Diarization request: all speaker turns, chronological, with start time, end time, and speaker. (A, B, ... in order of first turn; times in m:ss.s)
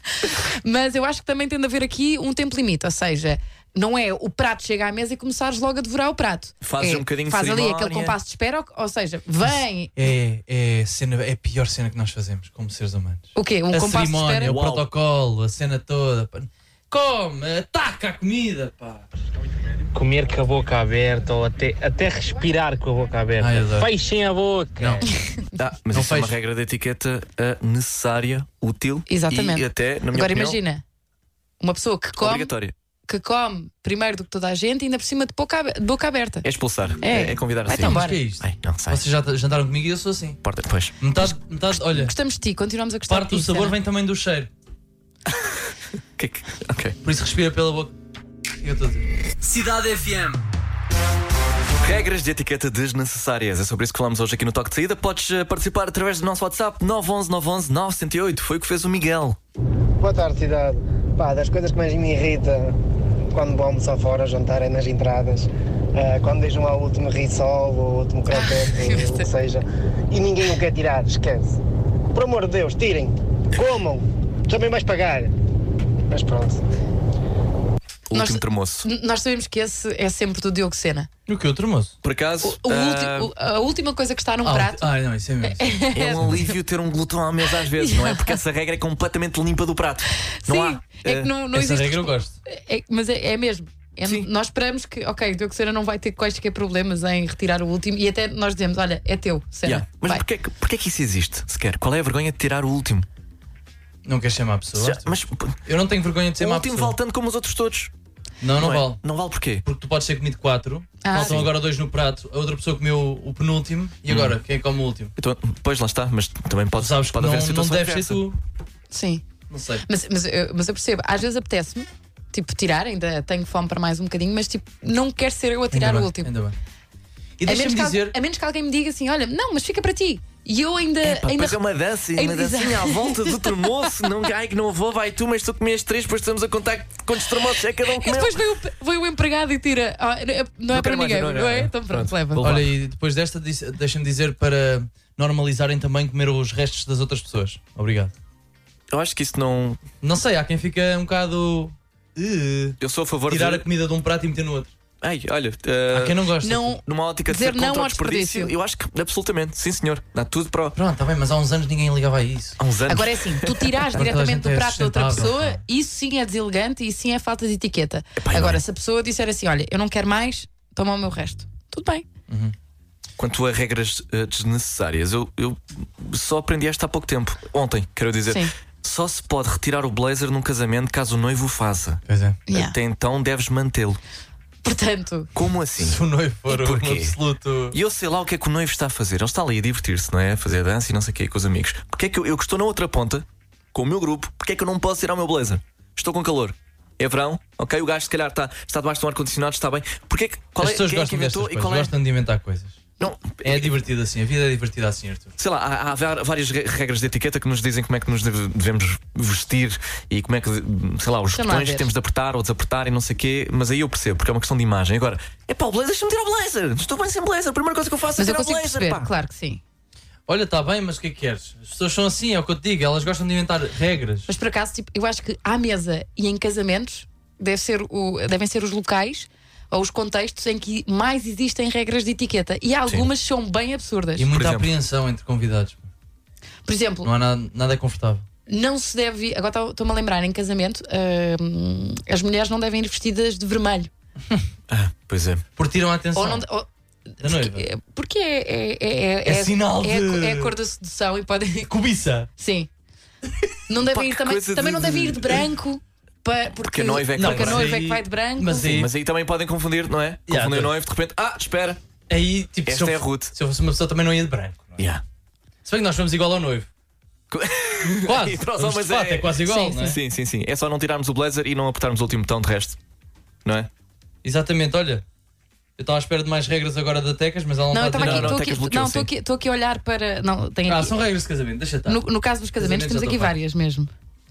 0:00.2-0:10.0 A
0:06.6-0:08.2 B
0:10.0-0:19.1 C
0:13.4-0:14.5 A
0:14.4-0:14.9 B
0:19.9-0:25.1 D
0:23.4-0:23.9 C
0:25.6-0:30.6 B
0:25.9-0:26.4 C
0:29.1-0:30.8 A
0:31.6-0:32.5 A
0:32.2-0:32.7 B
0:33.1-0:36.5 A
0:36.4-0:39.0 B
0:37.0-0:38.2 A
0:37.8-0:40.4 C
0:40.4-0:41.0 B
0:41.0-0:42.1 C
0:41.2-0:43.8 A
0:43.1-0:44.5 C
0:46.2-0:47.0 B
0:47.0-0:47.9 C
0:48.6-0:50.4 C
0:51.8-0:59.4 B
1:00.0-1:02.8 E
1:03.3-1:11.6 E
1:08.3-1:09.2 A
1:12.1-1:15.3 E
1:16.1-1:16.6 E
1:18.1-1:18.9 B
1:18.1-1:21.1 A
1:21.3-1:22.0 C
1:22.0-1:23.3 B
1:22.4-1:24.9 A
1:24.4-1:26.3 C
1:25.4-1:26.6 A
1:26.0-1:31.3 B
1:27.7-1:28.4 A
1:30.4-1:40.2 A
1:31.5-1:32.4 C
1:39.6-1:43.1 B
1:44.0-1:45.1 C
1:44.8-1:45.6 B
1:45.7-1:47.0 C
1:46.4-1:47.9 B
1:48.4-1:49.0 C
1:48.6-1:49.6 B
1:49.6-1:55.1 C
1:51.0-1:51.5 A
1:51.1-1:51.5 B
1:54.1-1:54.4 B
1:55.2-1:58.2 B
1:56.8-1:58.4 C
1:58.9-1:59.2 A
1:59.5-1:59.9 C
1:59.9-2:06.3 A
2:05.7-2:06.6 C
2:07.4-2:08.2 C
2:07.4-2:11.6 A
2:11.0-2:18.4 B
2:12.1-2:13.6 A
2:17.8-2:22.5 A
2:20.7-2:22.7 B
2:22.4-2:28.1 C
2:28.9-2:29.8 B
2:30.0-2:32.8 C
2:32.8-2:33.7 B
2:33.3-2:34.7 C
2:35.0-2:36.2 B
2:35.9-2:36.8 C
2:36.4-2:38.5 A
2:36.8-2:40.8 B
2:40.8-2:42.6 C
2:42.6-2:43.8 B
2:42.9-2:52.1 A
2:43.9-2:45.5 C
2:48.2-2:48.6 B
2:52.3-2:52.6 C
2:53.2-3:04.0 B
3:02.1-3:02.4 C
3:02.5-3:02.8 A
3:04.6-3:05.3 A
3:05.4-3:07.2 B
3:05.8-3:07.8 C
3:07.7-3:21.9 B
3:20.6-3:22.9 C
3:23.0-3:23.7 B
3:23.4-3:25.4 C
3:25.4-3:39.1 B
3:31.3-3:31.9 A
3:38.2-3:39.6 A
3:40.3-3:44.3 C
3:44.3-3:54.3 A
3:54.2-3:55.9 C
3:54.3-3:54.7 B
3:56.7-3:57.1 A
3:57.0-3:58.2 C
3:58.5-4:03.9 A
4:04.7-4:05.4 B
4:05.6-4:06.5 C
4:06.2-4:06.7 A
4:07.2-4:11.7 A
4:07.2-4:07.7 C
4:09.2-4:10.5 C
4:11.7-4:12.3 C
4:12.4-4:12.7 A
4:13.7-4:18.7 A
4:13.8-4:15.4 B
4:16.6-4:17.8 B
4:17.2-4:18.9 C
4:18.6-4:21.8 B
4:20.3-4:20.8 C
4:22.1-4:24.8 C
4:22.7-4:23.3 B
4:24.8-4:25.0 B
4:25.6-4:26.7 C
4:27.3-4:32.8 B
4:27.9-4:30.0 C
4:29.4-4:29.8 A
4:33.4-4:33.7 B
4:34.2-4:35.0 C
4:35.8-4:38.4 C
4:37.7-4:41.0 A
4:38.0-4:39.1 B
4:40.7-4:42.0 C
4:41.9-4:43.9 A
4:42.6-4:43.4 C